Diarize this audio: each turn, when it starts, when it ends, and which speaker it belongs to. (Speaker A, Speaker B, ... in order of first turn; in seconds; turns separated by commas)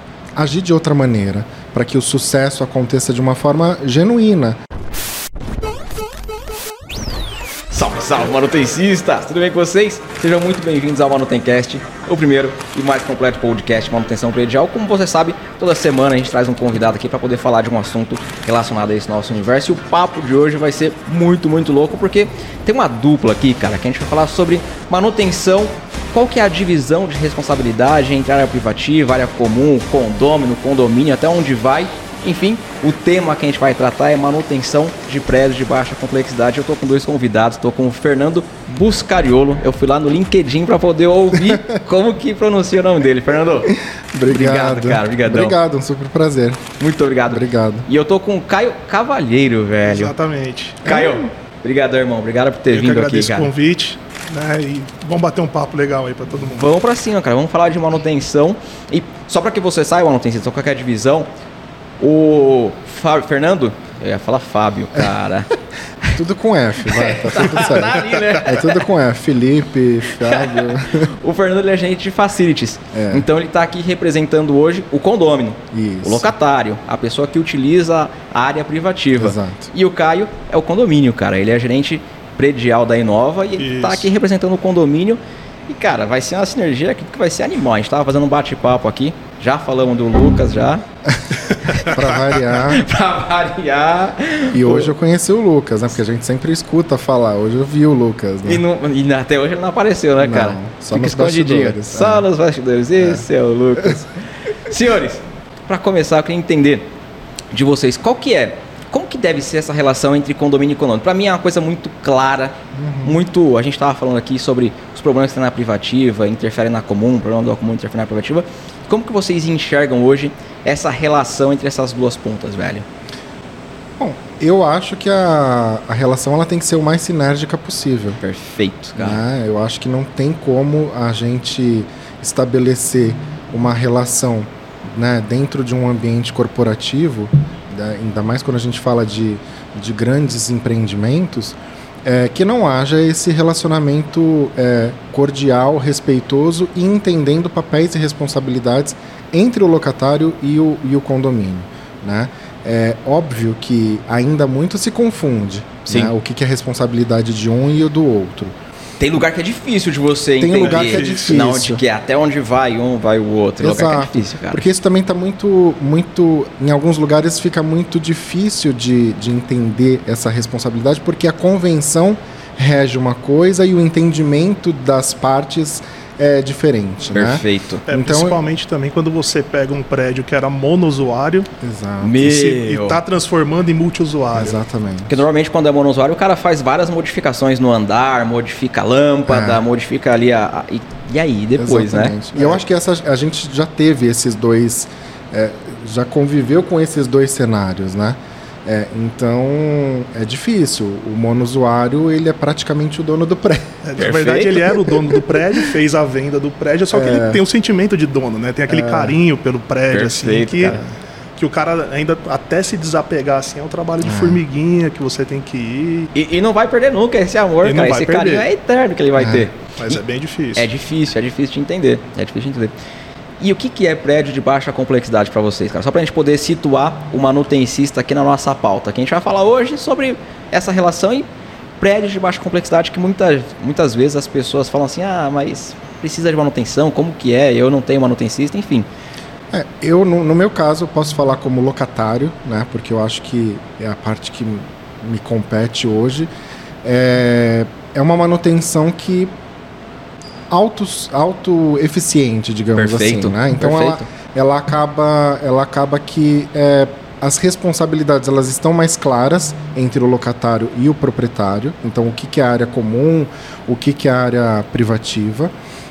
Speaker A: 0.3-4.6, Speaker B: 7.7-43.7, Speaker A: 41.3-41.7, Speaker A: 43.6-46.7, Speaker B: 44.3-45.6, Speaker B: 46.8-50.1, Speaker A: 47.3-47.9, Speaker C: 49.9-51.1, Speaker B: 50.8-53.5, Speaker A: 50.9-51.1, Speaker C: 52.7-56.7, Speaker B: 56.5-61.3, Speaker B: 62.0-66.2, Speaker A: 66.1-71.1, Speaker B: 66.9-68.8, Speaker B: 70.1-90.8, Speaker A: 72.9-73.2, Speaker A: 75.7-76.3, Speaker A: 79.2-79.7, Speaker C: 83.6-84.1, Speaker A: 91.1-92.8, Speaker B: 91.6-92.0, Speaker B: 92.5-94.9, Speaker A: 94.5-98.6, Speaker B: 98.4-106.9, Speaker A: 100.2-102.3, Speaker A: 103.0-103.2, Speaker B: 107.5-122.8, Speaker A: 112.7-113.2, Speaker A: 124.0-128.2, Speaker B: 128.2-129.2, Speaker A: 129.0-158.5, Speaker B: 155.9-156.1, Speaker B: 159.0-164.7, Speaker A: 160.4-161.8, Speaker C: 160.6-161.5, Speaker A: 163.6-178.4, Speaker B: 177.1-177.8, Speaker C: 177.9-181.5, Speaker A: 181.6-182.2, Speaker B: 182.0-183.0, Speaker C: 182.2-184.6, Speaker A: 184.3-185.2, Speaker B: 185.1-192.6, Speaker A: 189.2-189.6, Speaker A: 191.6-203.8, Speaker C: 203.8-210.8, Speaker B: 204.0-204.8, Speaker A: 206.9-207.4, Speaker A: 208.7-209.2, Speaker B: 209.9-210.8, Speaker C: 211.4-216.1, Speaker A: 214.0-214.4, Speaker B: 216.1-220.0, Speaker C: 217.6-218.5, Speaker A: 219.2-219.5, Speaker C: 219.8-220.7, Speaker B: 220.5-222.7, Speaker B: 223.4-231.3, Speaker B: 231.8-238.9, Speaker A: 239.5-246.3, Speaker A: 246.8-249.3, Speaker A: 250.5-265.5, Speaker B: 252.7-254.1